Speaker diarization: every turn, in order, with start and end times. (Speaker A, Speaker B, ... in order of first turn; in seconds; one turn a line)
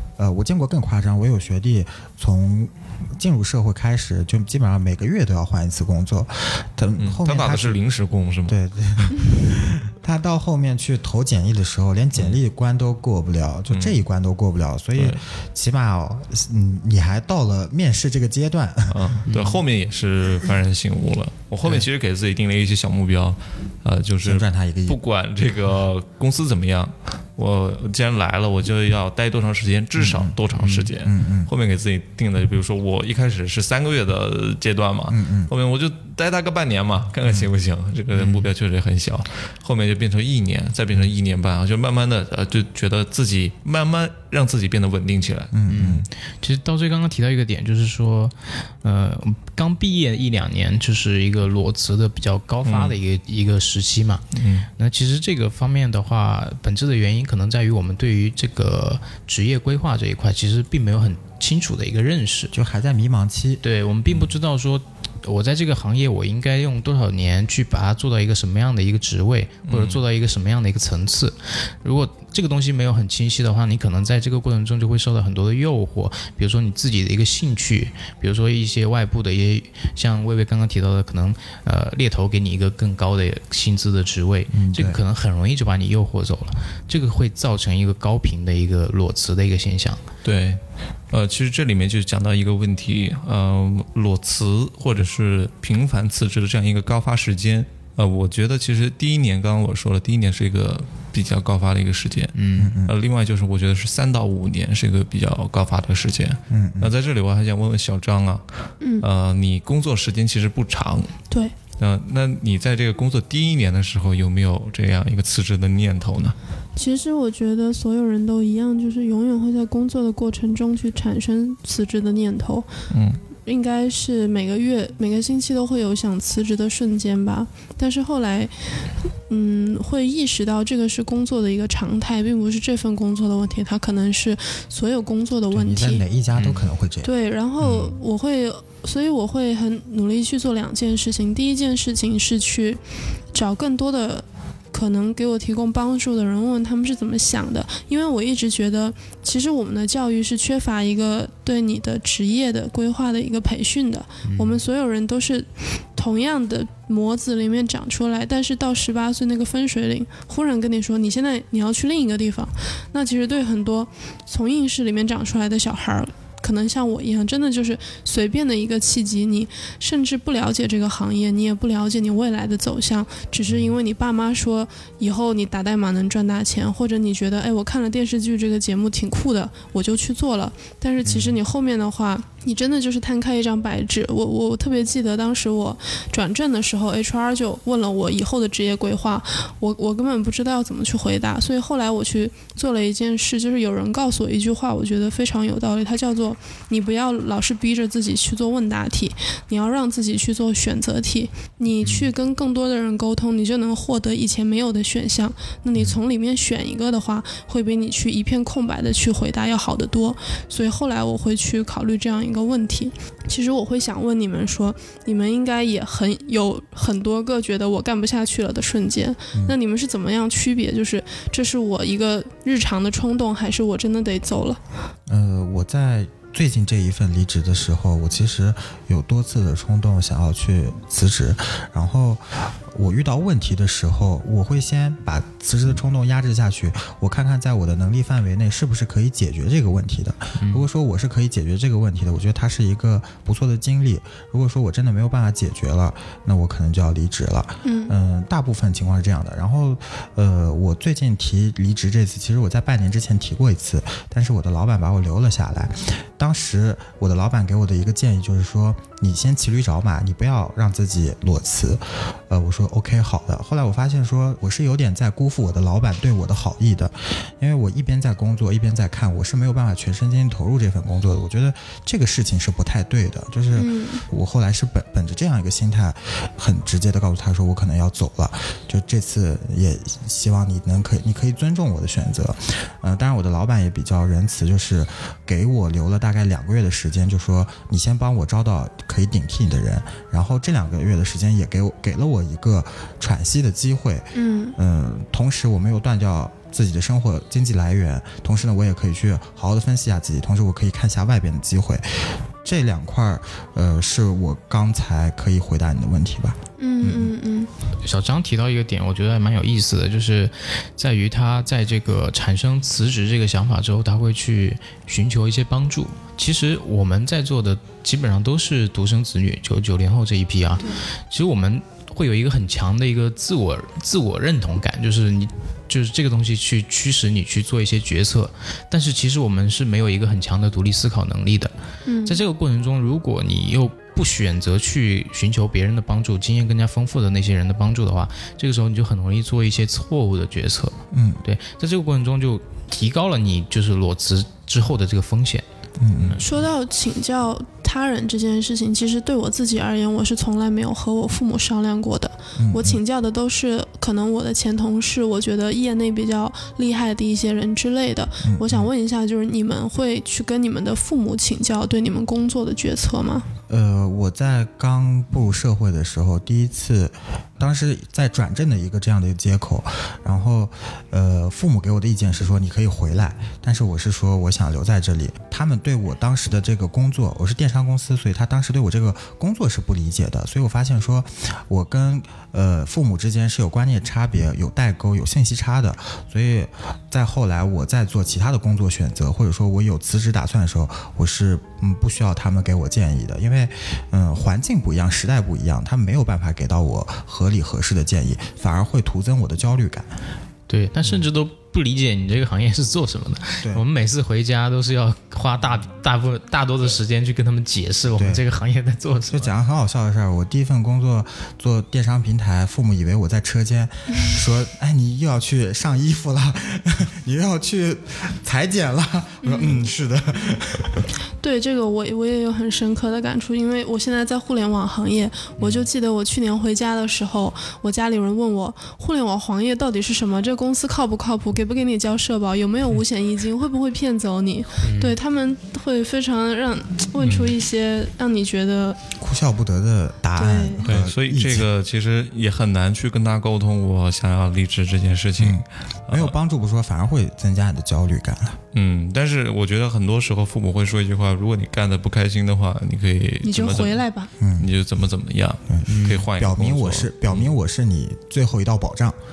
Speaker A: 0.2-7.8
Speaker B: 7.0-9.1
Speaker A: 8.5-19.2
Speaker B: 13.7-14.0
Speaker B: 14.9-15.2
Speaker B: 18.9-45.5
Speaker C: 19.3-19.6
Speaker A: 24.2-25.0
Speaker A: 30.0-30.4
Speaker C: 30.6-30.9
Speaker A: 31.0-31.5
Speaker A: 35.1-35.5
Speaker A: 37.2-37.5
Speaker C: 38.1-38.5
Speaker A: 45.5-46.1
Speaker C: 45.7-54.2
Speaker B: 52.6-53.0
Speaker B: 54.3-54.7
Speaker C: 54.8-62.5
Speaker A: 62.5-63.6
Speaker C: 63.6-90.0
Speaker B: 69.7-70.0
Speaker A: 84.5-85.0
Speaker B: 90.2-108.4
Speaker C: 102.3-102.7
Speaker A: 102.6-102.9
Speaker A: 106.5-106.9
Speaker B: 109.0-111.1
Speaker B: 111.8-116.4
Speaker D: 116.8-122.7
Speaker B: 122.9-123.2
Speaker D: 123.5-128.5
Speaker D: 129.3-136.0
Speaker A: 135.5-137.1
Speaker D: 137.0-142.8
Speaker B: 137.6-137.9
Speaker D: 143.3-224.6
Speaker C: 154.2-154.6
Speaker A: 173.5-173.7
Speaker A: 181.0-181.4
Speaker C: 201.8-202.1
Speaker A: 225.1-307.1
Speaker C: 240.4-240.7
Speaker D: 247.6-247.9
Speaker D: 273.5-274.0
Speaker D: 294.1-294.6
Speaker D: 306.6-307.5
Speaker C: 307.8-331.5
Speaker D: 331.9-332.2
Speaker C: 332.1-345.4
Speaker A: 340.9-341.2
Speaker A: 345.8-346.2
Speaker D: 346.2-363.3
Speaker A: 352.4-352.8
Speaker A: 358.2-358.7
Speaker A: 363.5-399.9
Speaker C: 400.5-409.3
Speaker A: 408.0-408.2
Speaker A: 409.1-420.9
Speaker D: 419.2-419.7
Speaker D: 421.2-438.8
Speaker C: 434.6-435.0
Speaker B: 437.0-437.3
Speaker A: 439.0-441.5
Speaker D: 440.2-440.6
Speaker B: 440.6-446.1
Speaker A: 445.2-448.4
Speaker B: 448.5-453.8
Speaker D: 453.2-454.1
Speaker A: 454.2-454.5
Speaker B: 454.4-457.3
Speaker A: 455.5-459.0
Speaker C: 455.7-456.1